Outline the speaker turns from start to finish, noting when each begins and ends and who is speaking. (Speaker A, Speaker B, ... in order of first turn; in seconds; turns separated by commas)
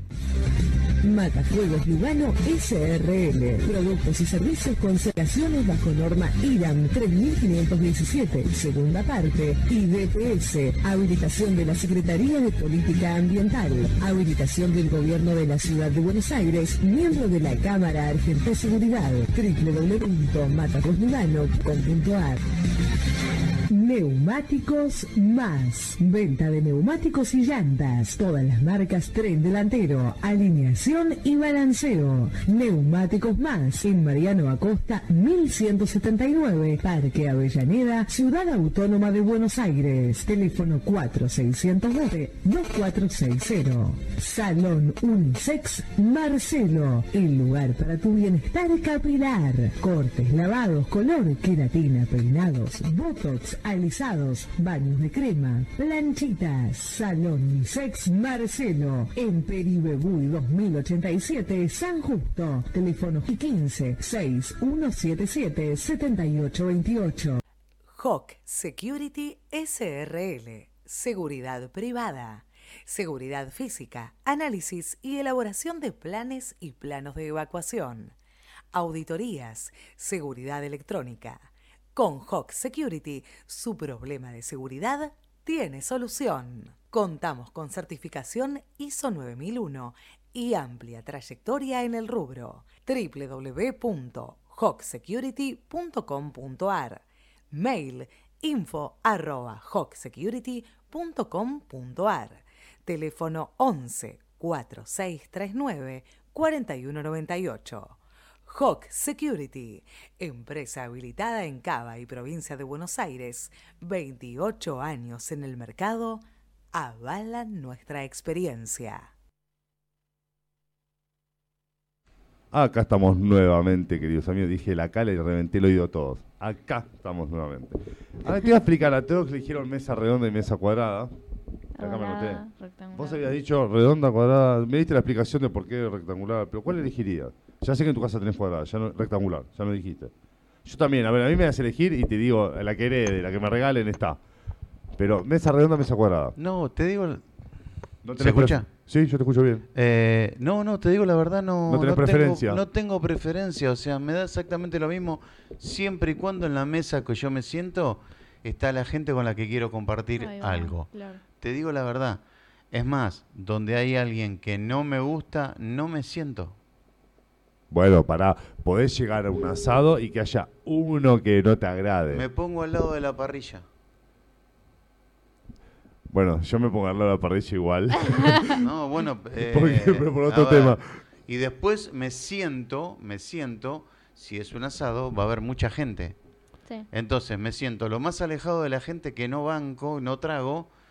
Speaker A: 1.0-22.4, Speaker A: 23.7-67.4, Speaker B: 67.9-78.1, Speaker B: 78.7-119.1, Speaker C: 122.5-131.1, Speaker D: 131.8-133.2, Speaker C: 131.8-132.4, Speaker C: 132.9-140.1, Speaker C: 140.6-144.2, Speaker C: 145.0-146.3, Speaker E: 146.4-147.2, Speaker C: 148.0-149.7, Speaker E: 148.2-148.7, Speaker E: 149.7-162.2, Speaker C: 151.7-152.6, Speaker D: 160.2-161.2, Speaker E: 162.7-166.6, Speaker C: 167.7-172.3, Speaker E: 172.1-173.7, Speaker C: 176.1-178.5, Speaker E: 178.6-186.2, Speaker C: 179.3-180.8, Speaker E: 186.9-190.7